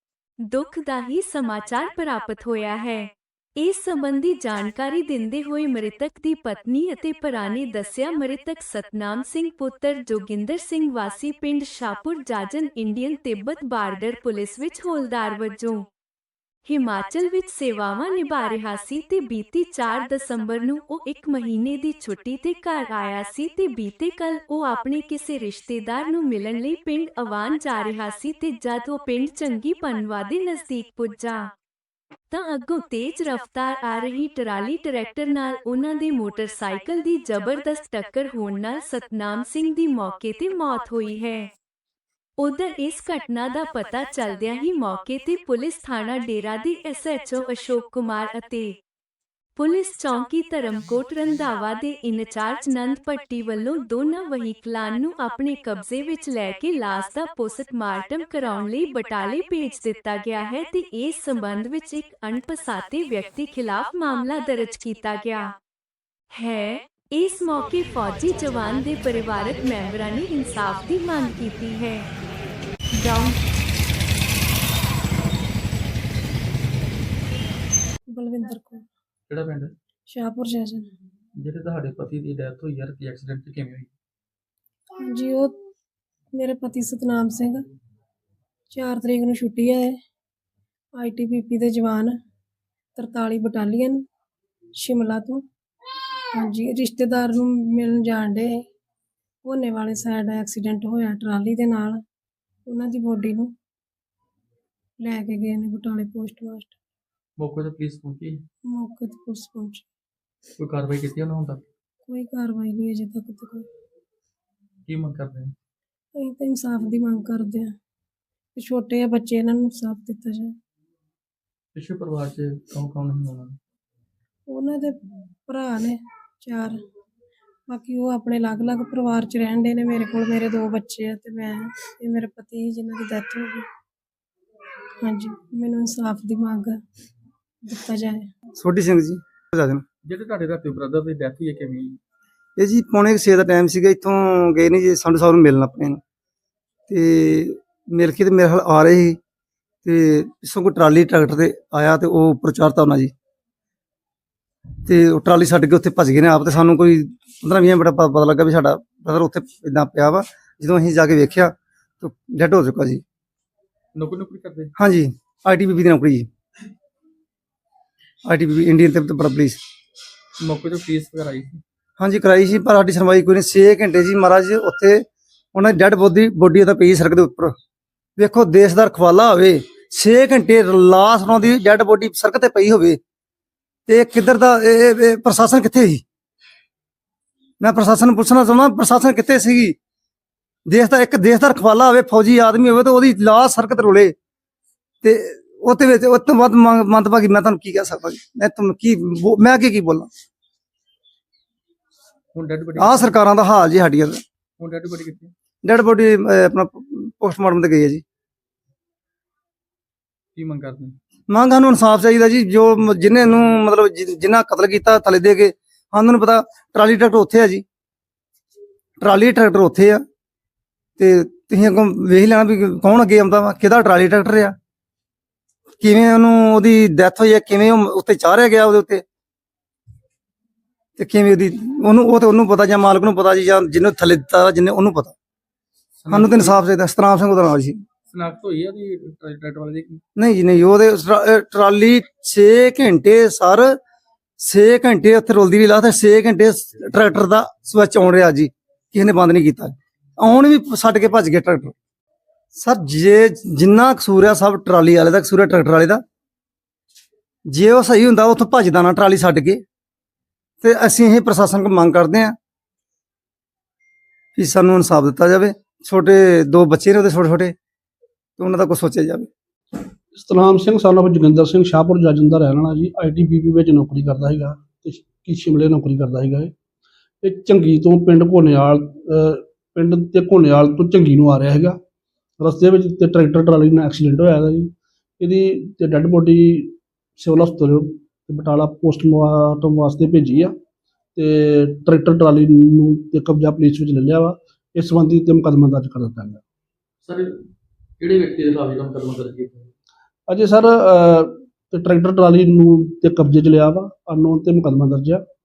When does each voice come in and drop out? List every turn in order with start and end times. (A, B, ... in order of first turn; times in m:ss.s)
0:00.4-0:15.9 A
0:16.6-0:31.5 A
0:32.3-0:41.5 A
0:42.4-0:48.8 A
0:49.6-1:05.6 A
1:06.3-1:12.1 A
1:12.9-1:13.4 A
1:18.1-1:18.8 B
1:19.3-1:19.7 C
1:20.1-1:20.9 B
1:21.4-1:23.9 C
1:25.0-1:25.6 B
1:26.3-1:27.6 B
1:28.7-1:29.9 B
1:31.0-1:32.1 B
1:33.0-1:34.0 B
1:34.8-1:35.4 B
1:36.3-1:38.5 B
1:39.4-1:42.0 B
1:42.7-1:43.5 B
1:45.0-1:46.8 B
1:47.4-1:48.4 C
1:48.7-1:49.8 B
1:50.6-1:51.6 C
1:52.1-1:53.7 B
1:54.9-1:55.5 C
1:56.2-1:57.7 B
1:58.6-2:00.5 B
2:01.8-2:03.6 C
2:04.5-2:06.8 B
2:07.7-2:13.7 B
2:15.0-2:16.8 B
2:17.6-2:18.3 B
2:18.6-2:19.8 D
2:20.0-2:22.0 C
2:22.6-2:26.0 D
2:26.9-2:29.2 D
2:29.8-2:33.1 D
2:34.8-2:43.0 D
2:44.0-2:44.7 C
2:44.8-2:46.3 D
2:48.3-2:49.6 D
2:50.4-2:51.6 C
2:52.0-2:57.5 D
2:58.2-3:03.0 D
3:03.9-3:06.0 D
3:07.6-3:09.8 D
3:10.7-3:14.1 D
3:15.0-3:20.1 D
3:22.3-3:23.2 C
3:22.8-3:24.2 D
3:24.6-3:25.3 C
3:25.6-3:28.0 D
3:30.4-3:31.0 C
3:31.3-3:37.6 D
3:39.0-3:40.0 D
3:41.0-3:44.5 D
3:45.8-3:49.0 D
3:51.0-3:55.2 D
3:56.0-3:56.6 C
3:56.1-3:57.8 D
3:58.1-4:00.0 C
4:00.2-4:03.8 D
4:04.4-4:11.7 D
4:12.6-4:16.0 D
4:17.5-4:19.6 D
4:20.6-4:22.3 D
4:24.4-4:27.6 D
4:28.4-4:29.3 D
4:30.1-4:36.5 E
4:37.2-4:41.8 E
4:42.4-4:50.6 E
4:51.2-4:56.4 E
4:57.0-4:57.3 C
4:58.0-4:59.7 C
5:00.3-5:05.2 E